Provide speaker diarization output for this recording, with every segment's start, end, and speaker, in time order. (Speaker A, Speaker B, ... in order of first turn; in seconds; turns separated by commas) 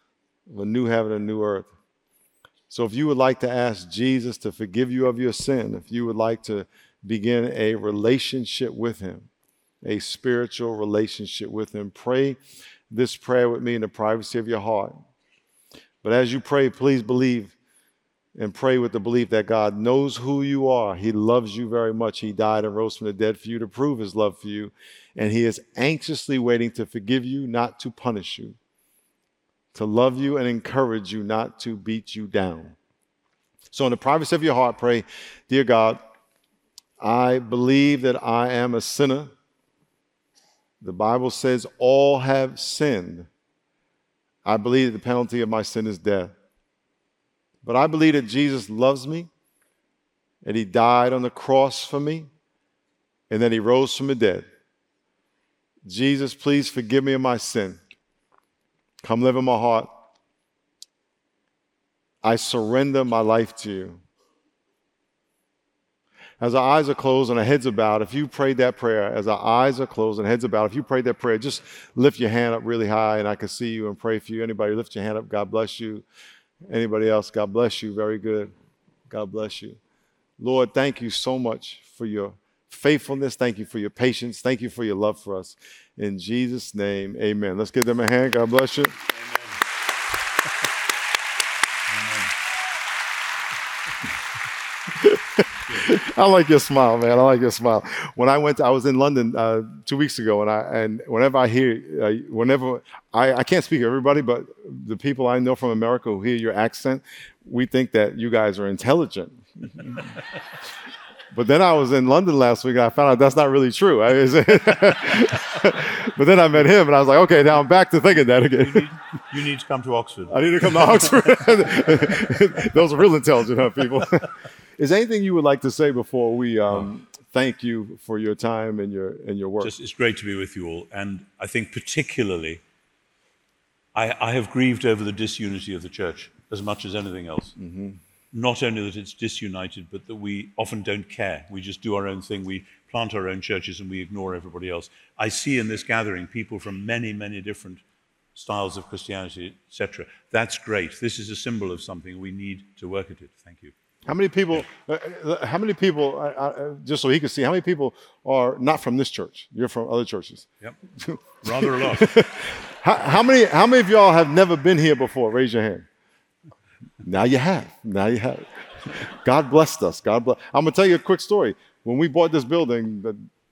Speaker A: 0.5-1.7, Speaker A: 2.7-9.3, Speaker A: 9.8-12.4, Speaker A: 12.9-14.9, Speaker A: 16.0-17.5, Speaker A: 18.4-28.6, Speaker A: 29.7-32.8, Speaker A: 33.7-36.0, Speaker A: 37.0-39.3, Speaker A: 40.8-43.3, Speaker A: 44.4-46.3, Speaker A: 47.6-49.3, Speaker A: 50.4-52.3, Speaker A: 53.3-54.5, Speaker A: 55.9-57.8, Speaker A: 59.0-60.0, Speaker A: 62.2-64.0, Speaker A: 66.4-76.0, Speaker A: 76.7-78.5, Speaker A: 79.1-79.8, Speaker A: 80.4-89.0, Speaker B: 89.1-89.6, Speaker B: 91.9-92.3, Speaker A: 94.9-110.1, Speaker A: 111.3-118.9, Speaker B: 118.5-120.5, Speaker A: 120.3-129.7, Speaker B: 129.6-132.6, Speaker B: 133.9-137.5, Speaker A: 137.6-138.0, Speaker B: 138.3-147.8, Speaker B: 148.3-153.7, Speaker A: 154.1-165.9, Speaker B: 161.4-162.2, Speaker A: 167.0-173.2